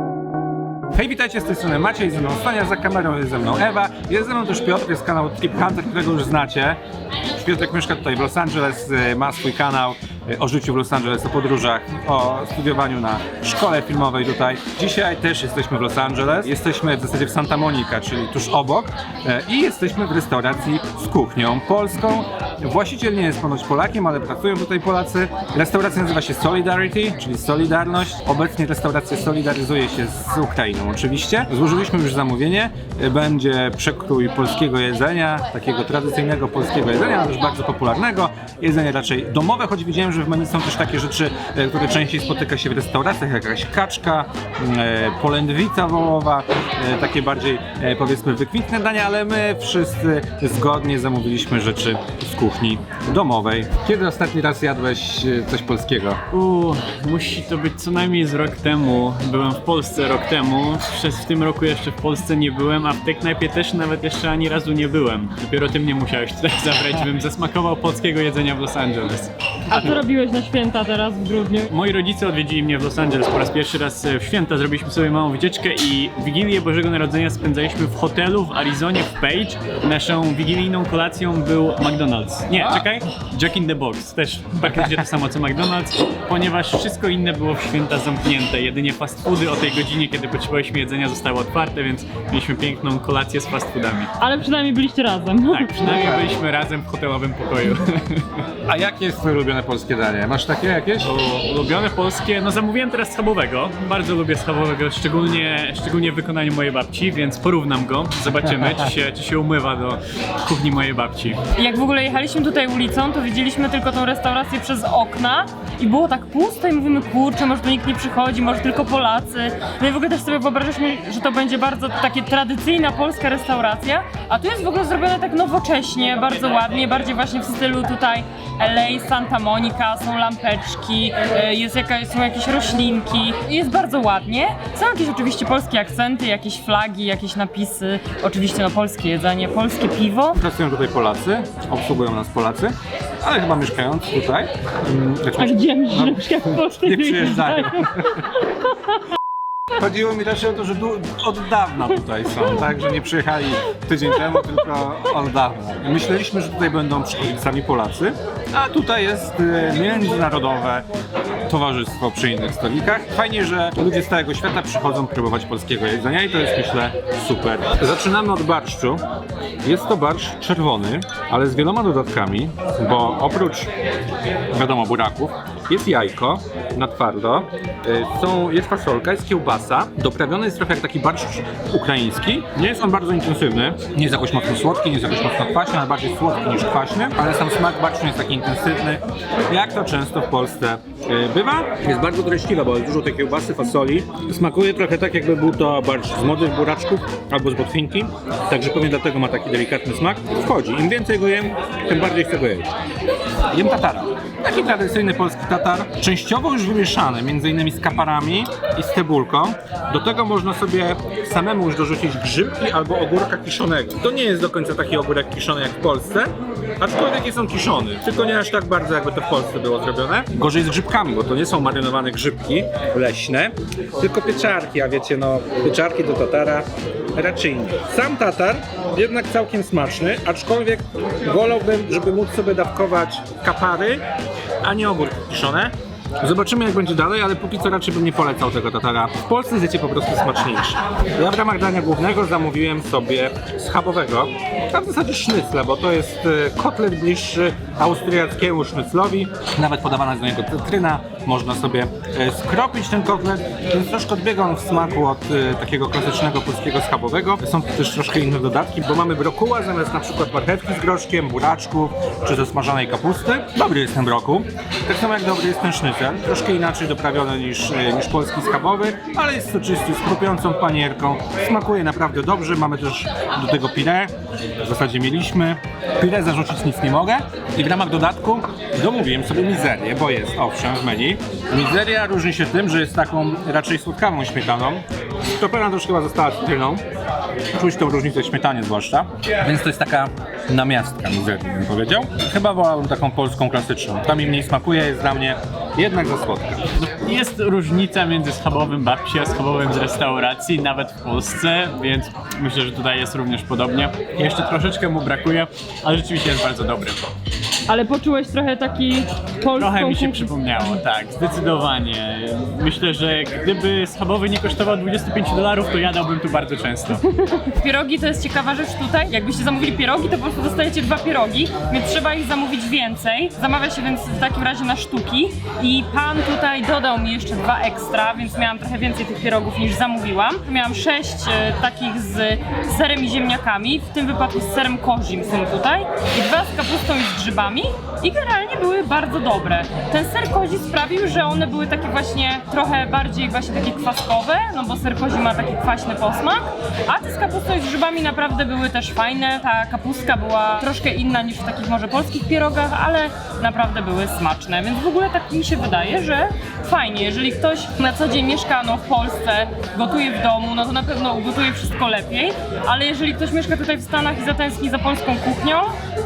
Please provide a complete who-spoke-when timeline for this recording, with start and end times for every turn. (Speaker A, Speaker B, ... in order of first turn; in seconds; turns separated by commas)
Speaker A: 0.9-6.8, Speaker A: 7.3-56.2, Speaker B: 56.3-70.0, Speaker C: 69.7-71.7, Speaker B: 71.7-94.1, Speaker C: 94.2-95.8, Speaker B: 95.5-98.4, Speaker A: 95.8-96.2, Speaker A: 98.7-101.1, Speaker B: 101.0-111.4, Speaker C: 111.5-140.4, Speaker A: 140.3-148.3, Speaker C: 145.4-148.5, Speaker A: 149.8-160.8, Speaker A: 161.5-169.0, Speaker A: 169.6-173.7, Speaker A: 174.5-202.7, Speaker A: 203.5-234.0, Speaker A: 234.6-274.1, Speaker A: 274.6-284.8, Speaker A: 285.4-286.8, Speaker A: 287.5-296.7, Speaker B: 296.8-307.0, Speaker C: 307.7-310.3, Speaker B: 309.5-317.1, Speaker C: 317.2-365.7